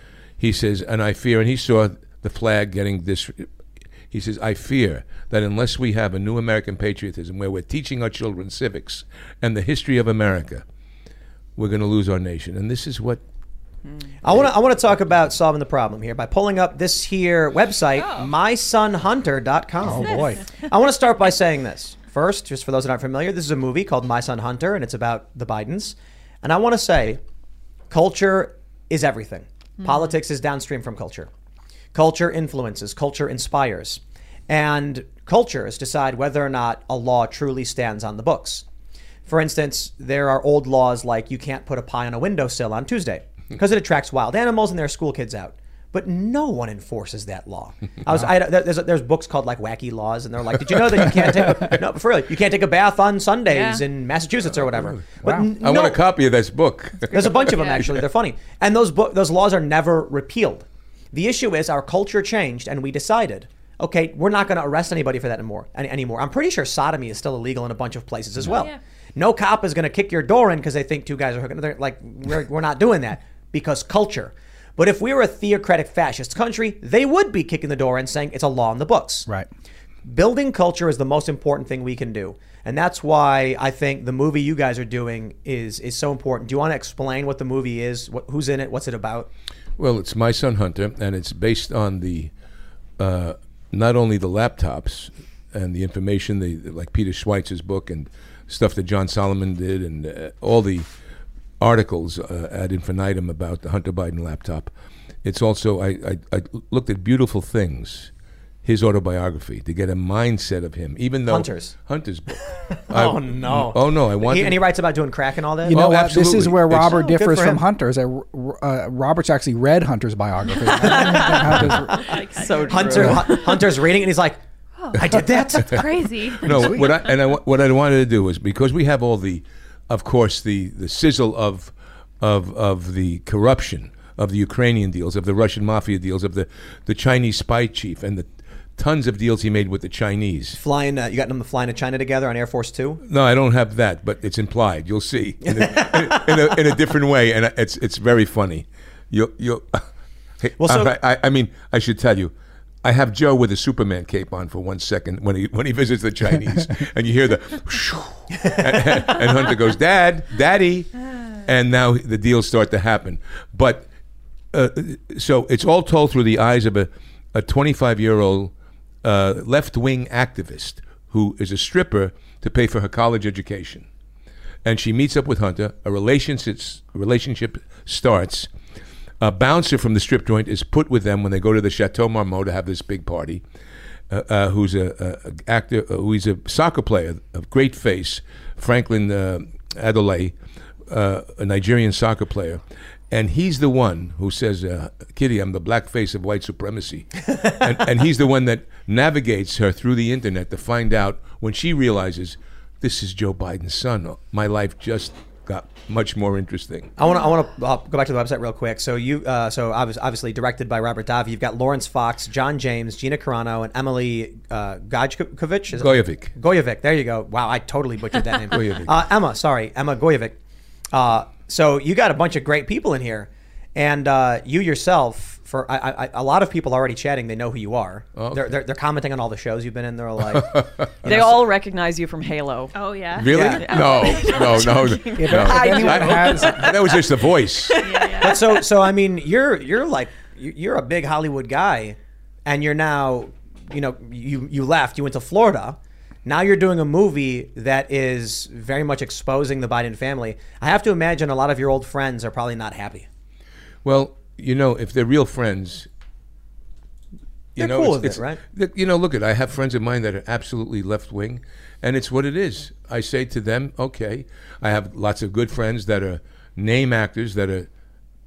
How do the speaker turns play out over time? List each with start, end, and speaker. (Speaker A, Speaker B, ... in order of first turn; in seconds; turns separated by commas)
Speaker A: 0.4-3.5, Speaker A: 4.1-10.6, Speaker A: 11.6-13.2, Speaker B: 14.2-27.2, Speaker C: 18.0-18.3, Speaker D: 19.8-20.4, Speaker B: 27.9-31.3, Speaker B: 31.9-38.6, Speaker B: 39.3-56.1, Speaker C: 53.5-53.8, Speaker A: 54.5-58.0, Speaker D: 55.2-55.5, Speaker B: 57.1-79.3, Speaker C: 57.2-57.9, Speaker C: 68.5-68.8, Speaker B: 80.0-89.3, Speaker A: 89.8-92.3, Speaker A: 93.0-100.9, Speaker A: 101.6-104.7, Speaker A: 105.2-108.1, Speaker A: 108.6-114.6, Speaker B: 111.3-111.8, Speaker B: 112.9-116.0, Speaker D: 115.7-122.2, Speaker A: 115.7-117.0, Speaker B: 116.9-117.6, Speaker B: 120.8-121.7, Speaker C: 120.9-123.4, Speaker E: 122.4-123.5, Speaker B: 122.7-124.4, Speaker C: 124.8-127.2, Speaker B: 124.9-125.8, Speaker A: 125.6-125.9, Speaker A: 126.4-140.6, Speaker B: 140.6-143.0, Speaker A: 143.0-149.8, Speaker B: 145.5-146.5, Speaker A: 150.4-152.3, Speaker B: 150.6-150.9, Speaker A: 152.8-160.9, Speaker B: 158.4-159.2, Speaker A: 161.4-163.9, Speaker A: 164.5-173.9, Speaker A: 174.6-178.5, Speaker A: 179.2-183.4, Speaker A: 184.1-190.3, Speaker A: 190.9-206.9, Speaker B: 207.0-220.4, Speaker A: 215.7-216.4, Speaker A: 218.5-218.9, Speaker B: 220.9-231.5, Speaker A: 228.2-228.6, Speaker A: 230.3-230.9, Speaker E: 231.1-232.8, Speaker C: 232.8-234.5, Speaker A: 233.2-237.8, Speaker B: 233.3-233.7, Speaker E: 233.3-238.6, Speaker D: 235.2-236.7, Speaker C: 237.8-238.4, Speaker B: 238.2-253.1, Speaker A: 253.8-255.9, Speaker A: 257.6-267.7, Speaker B: 257.6-258.4